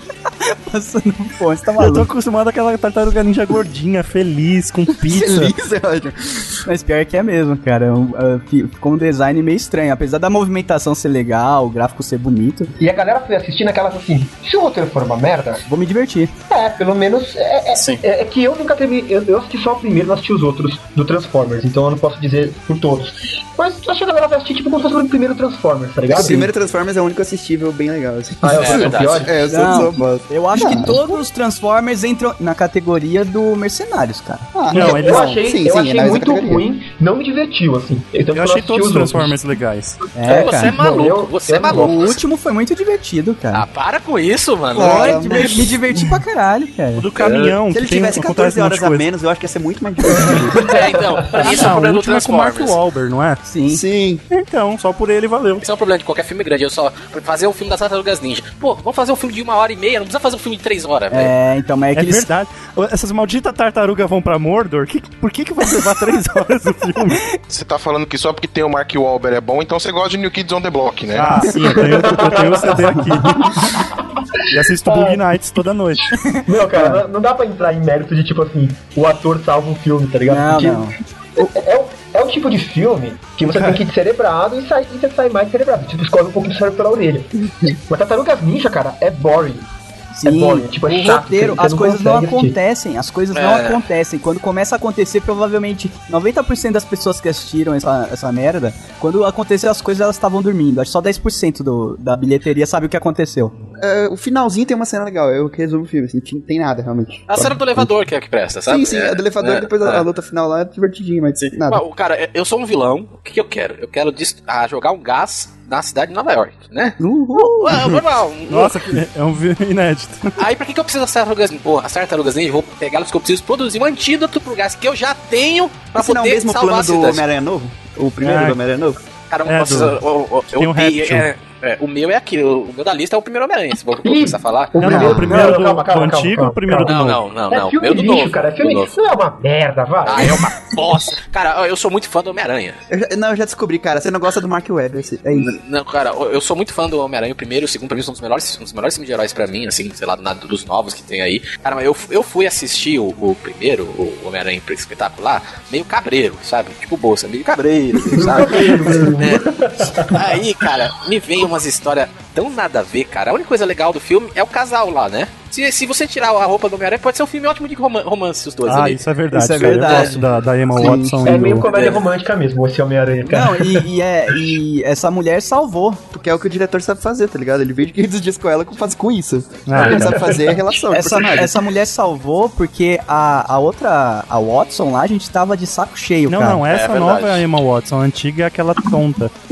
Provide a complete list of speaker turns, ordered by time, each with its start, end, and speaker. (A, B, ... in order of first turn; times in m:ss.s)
0:00.4-0:02.1 A
0:01.8-0:05.5 B
0:05.0-0:06.6 C
0:06.7-0:12.7 A
0:12.8-0:15.6 D
0:15.7-0:16.3 A
0:16.5-0:26.5 D
0:17.7-0:18.0 E
0:26.1-0:31.2 C
0:26.1-0:26.5 A
0:28.4-0:29.3 D
0:28.5-0:29.3 E
0:29.5-0:34.5 A
0:34.5-0:36.6 C
0:34.7-0:35.3 B
0:34.7-0:39.3 D
0:38.3-0:40.0 B
0:40.2-0:40.8 A
0:40.2-0:42.2 E
0:40.3-0:42.1 D
0:41.7-0:43.7 A
0:43.5-0:45.6 E
0:44.7-0:45.8 C
0:44.7-0:47.1 A
0:47.0-0:49.1 B
0:47.2-0:47.6 E
0:47.7-0:50.7 C
0:50.5-0:52.8 E
0:50.6-0:50.9 D
0:51.4-0:53.4 B
0:53.4-0:53.8 A
0:53.7-0:54.2 C
0:54.3-0:55.6 B
0:55.6-1:01.3 E
1:01.1-1:02.3 A
1:02.0-1:07.2 B
1:07.5-1:11.6 F
1:11.1-1:13.8 B
1:11.7-1:13.9 D
1:14.5-1:16.2 B
1:14.8-1:15.2 D
1:16.2-1:17.0 A
1:16.5-1:29.7 D
1:20.3-1:21.5 A
1:30.1-1:43.5 A
1:30.3-1:32.6 D
1:33.3-1:33.8 E
1:43.8-1:47.9 C
1:47.3-1:50.1 E
1:48.7-1:51.8 C
1:51.4-1:57.0 E
1:57.0-1:57.8 A
1:57.6-1:58.9 E
1:58.5-2:00.3 B
2:00.4-2:07.3 E
2:05.9-2:09.0 C
2:08.2-2:08.6 B
2:09.3-2:15.0 E
2:09.5-2:10.0 B
2:10.5-2:11.3 B
2:14.0-2:20.5 D
2:14.8-2:17.2 B
2:15.2-2:15.5 A
2:16.8-2:19.0 E
2:20.0-2:22.8 E
2:22.9-2:25.5 C
2:25.4-2:49.0 E
2:38.1-2:40.4 D
2:48.7-2:51.7 B
2:49.3-2:51.2 A
2:50.8-2:51.3 C
2:51.2-2:53.9 D
2:51.6-2:52.0 E
2:53.2-2:56.0 A
2:56.1-3:01.6 C
2:59.7-3:00.4 B
2:59.8-3:00.6 D
3:00.9-3:06.6 A
3:06.3-3:09.3 B
3:06.7-3:07.5 E